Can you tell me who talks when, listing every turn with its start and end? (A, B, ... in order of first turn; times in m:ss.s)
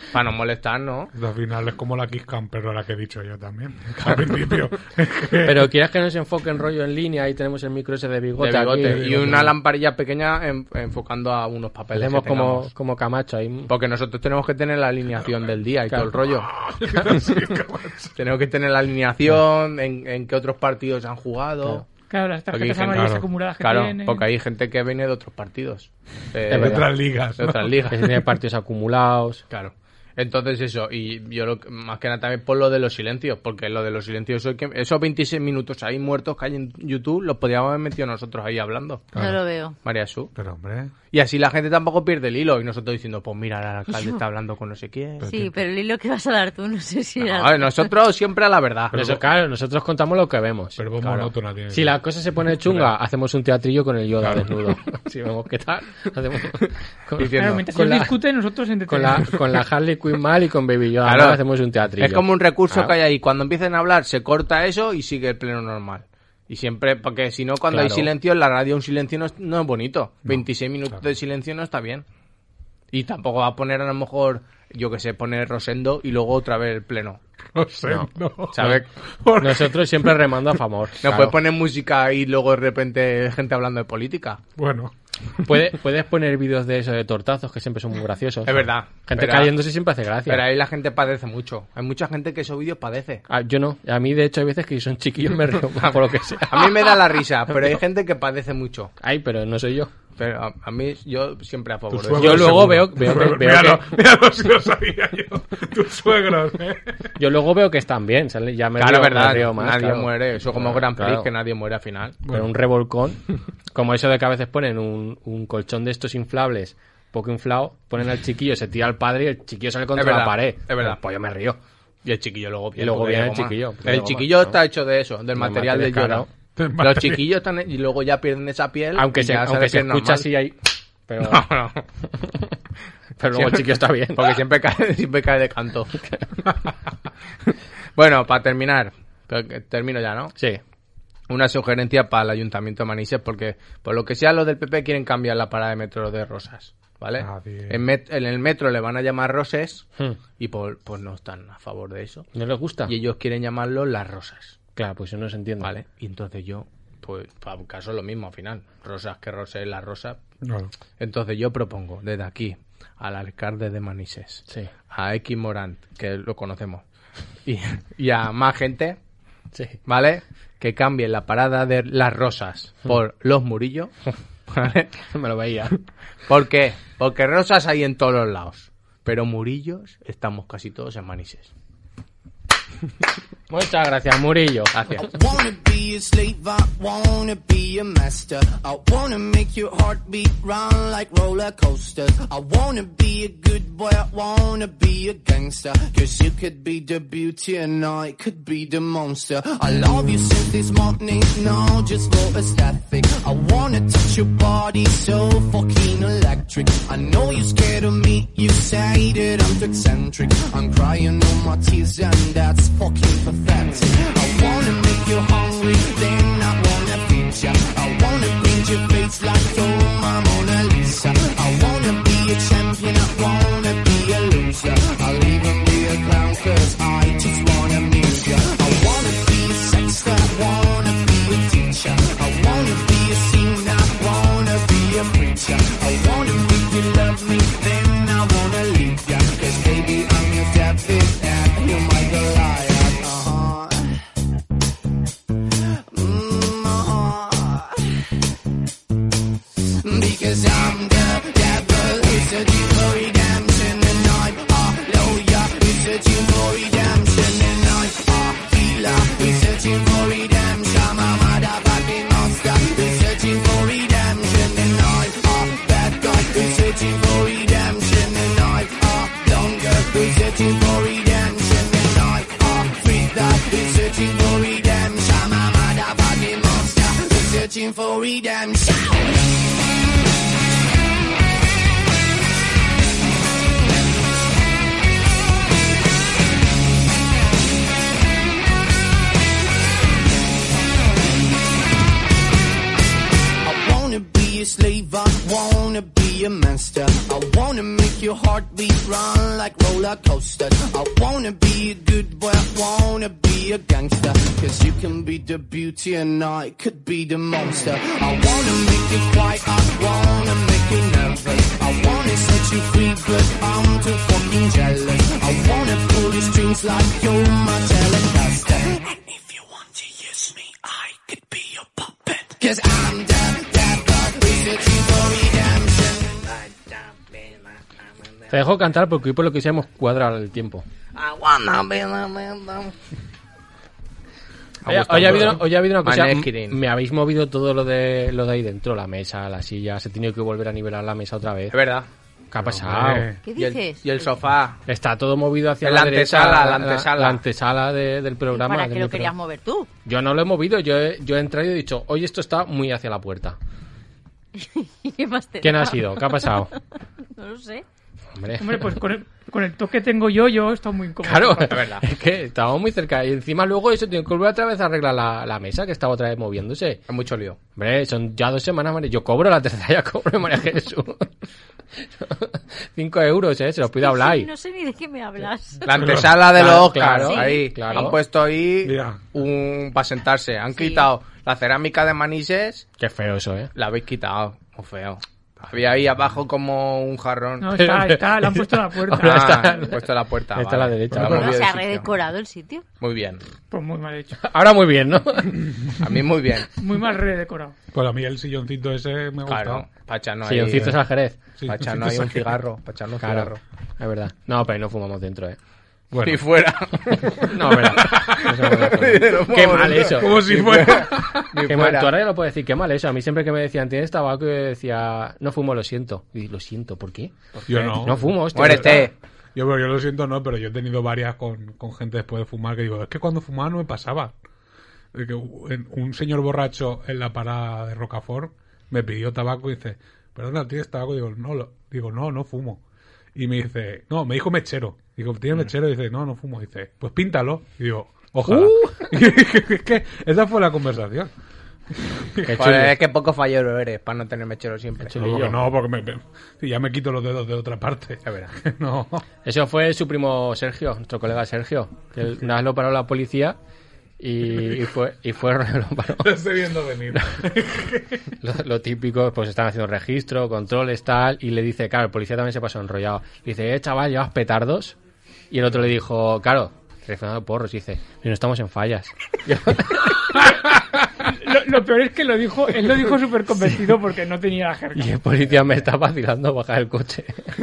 0:00.1-0:01.1 A
0:01.1-0:05.7 B
0:05.4-0:09.0 C
0:08.4-0:12.7 A
0:08.8-0:09.6 B
0:11.9-0:13.7 C
0:13.7-0:16.5 A
0:16.3-0:18.1 B
0:18.2-0:21.9 A
0:22.1-0:24.2 D
0:22.5-0:28.2 A
0:22.9-0:23.2 B
0:26.5-0:26.9 C
0:26.5-0:27.8 B
0:27.9-0:29.4 C
0:29.5-0:39.1 A
0:39.1-0:39.4 B
0:39.2-0:39.8 E
0:39.8-0:40.3 A
0:40.3-0:40.9 B
0:41.1-0:45.3 A
0:45.2-0:45.6 B
0:45.2-0:47.9 E
0:47.2-0:49.2 A
0:48.9-0:50.8 C
0:50.8-0:52.0 B
0:51.0-0:51.3 A
0:51.7-0:58.2 C
0:54.2-0:54.7 B
0:57.2-0:57.6 A
0:57.4-0:59.4 D
0:58.9-1:02.9 C
1:01.0-1:01.4 A
1:02.0-1:12.0 A
1:07.7-1:08.1 C
1:12.9-1:17.2 A
1:17.5-1:20.2 B
1:17.9-1:18.8 C
1:18.5-1:18.9 A
1:19.4-1:21.4 C
1:21.0-1:24.4 A
1:24.6-1:25.6 B
1:25.4-1:30.4 C
1:28.4-1:29.5 A
1:30.3-1:33.2 A
1:33.3-1:36.9 C
1:35.7-1:38.9 A
1:39.0-1:39.9 C
1:40.2-1:42.8 A
1:41.9-1:47.1 B
1:42.1-1:43.9 C
1:47.2-1:51.3 C
1:48.8-1:52.2 A
1:52.2-1:52.5 B
1:52.3-2:01.6 C
1:59.9-2:01.0 A
2:02.0-2:10.3 A
2:02.8-2:04.6 C
2:05.3-2:06.3 C
2:06.6-2:07.2 B
2:08.9-2:10.6 C
2:11.1-2:11.4 C
2:11.2-2:11.8 A
2:13.2-2:14.4 C
2:13.3-2:16.0 A
2:17.5-2:20.3 A
2:20.4-2:20.6 C
2:21.3-2:29.8 A
2:27.2-2:27.8 B
2:30.4-2:32.3 A
2:32.3-2:32.9 C
2:32.8-2:34.6 A
2:34.8-2:35.7 C
2:35.6-2:40.2 A
2:40.4-2:40.7 B
2:41.0-2:46.8 A
2:47.4-2:49.0 A
2:49.5-2:49.8 C
2:49.8-2:53.9 A
2:54.5-2:55.0 A
2:55.1-2:55.7 C
2:56.3-3:01.5 A
3:03.5-3:05.0 C
3:04.7-3:05.0 A
3:05.0-4:04.0 F
4:05.9-4:07.9 F
4:09.8-4:39.0 F
4:53.4-5:26.4 F
5:26.4-5:27.5 A
5:28.3-5:30.6 C
5:30.9-5:32.7 A
5:34.6-5:36.6 A
5:34.6-5:41.6 C
5:34.8-5:35.4 B
5:41.5-5:41.9 A
5:42.3-5:43.1 C
5:42.4-5:43.2 B
5:43.2-5:44.1 E
5:43.4-5:44.6 A
5:44.7-5:49.1 C
5:45.6-5:47.2 A
5:48.3-5:49.7 E
5:49.8-5:53.4 C
5:54.4-5:56.4 E
5:55.4-5:56.5 C
5:57.2-5:57.6 E
5:58.2-5:58.8 C
5:58.4-6:01.6 D
6:01.0-6:06.8 C
6:01.5-6:01.8 A
6:06.9-6:07.4 A
6:07.6-6:11.1 C
6:12.0-6:14.3 C
6:13.7-6:15.7 E
6:15.6-6:22.6 A
6:15.7-6:16.2 B
6:16.3-6:18.0 C
6:16.9-6:17.9 E
6:18.6-6:19.0 B
6:20.5-6:20.9 E
6:22.8-6:23.5 C
6:23.5-6:27.6 A
6:27.4-6:29.5 D
6:27.6-6:29.8 C
6:28.9-6:31.9 A
6:30.3-6:31.4 C
6:30.9-6:31.3 B
6:31.0-6:32.6 E
6:32.8-6:33.2 A
6:33.5-6:34.2 D
6:34.2-6:35.4 C
6:35.8-6:36.5 A
6:36.5-6:37.5 D
6:37.7-6:39.7 B
6:39.2-6:40.7 A
6:40.2-6:41.2 C
6:41.4-6:42.4 B
6:41.4-6:43.4 A
6:43.0-6:45.4 C
6:45.9-6:46.2 B
6:46.0-6:51.9 A
6:47.3-6:50.4 C
6:47.8-6:48.3 B
6:49.8-6:51.4 B
6:51.4-6:58.9 C
6:57.4-6:58.9 A
6:57.5-7:04.1 B
7:04.9-7:12.6 B
7:13.1-7:21.1 B
7:18.2-7:18.9 C
7:21.8-7:22.4 B
7:22.2-7:22.7 C
7:22.3-7:25.2 A
7:24.8-7:25.4 C
7:25.0-7:29.0 B
7:28.0-7:28.3 A
7:29.2-7:33.4 C
7:34.0-7:36.1 C
7:36.0-7:38.0 B
7:38.2-7:44.8 C
7:45.3-7:50.4 C
7:51.0-7:55.0 D
7:54.7-7:57.2 C